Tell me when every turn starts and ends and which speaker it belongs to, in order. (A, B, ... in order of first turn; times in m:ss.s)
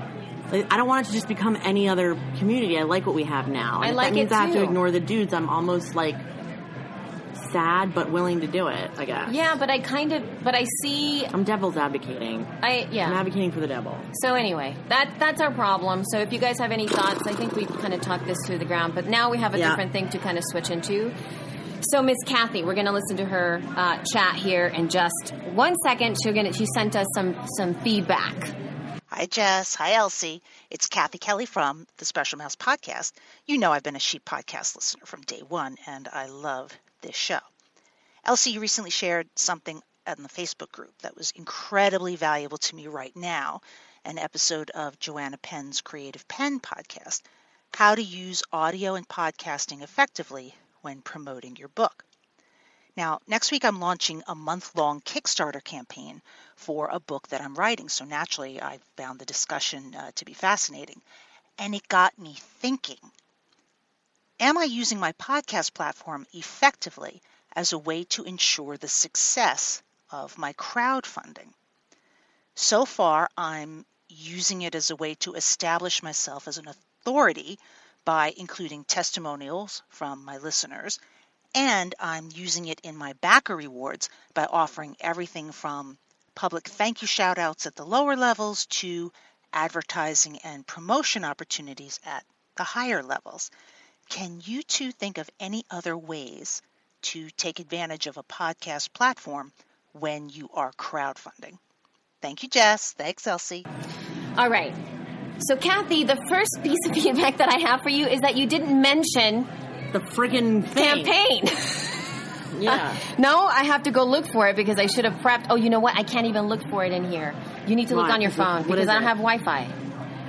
0:00.5-0:06.2 A
0:03.8-0:04.8 B
0:07.4-0:09.4 A
0:09.3-0:11.3 B
0:11.3-0:14.1 A
0:12.6-0:13.2 B
0:14.1-0:21.2 B
0:19.5-0:19.8 A
0:21.8-0:28.5 B
0:29.1-0:37.4 C
0:38.2-0:52.1 C
0:53.0-1:01.0 C
1:01.6-1:03.0 C
1:04.4-1:11.5 C
1:12.6-1:21.0 C
1:21.5-1:33.5 C
1:34.1-1:41.6 C
1:42.2-1:43.6 C
1:44.4-1:44.8 B
1:45.4-1:49.5 B
1:49.9-1:51.1 A
1:50.7-1:52.0 B
1:52.5-1:53.0 A
1:52.7-1:59.7 B
1:57.9-1:59.1 A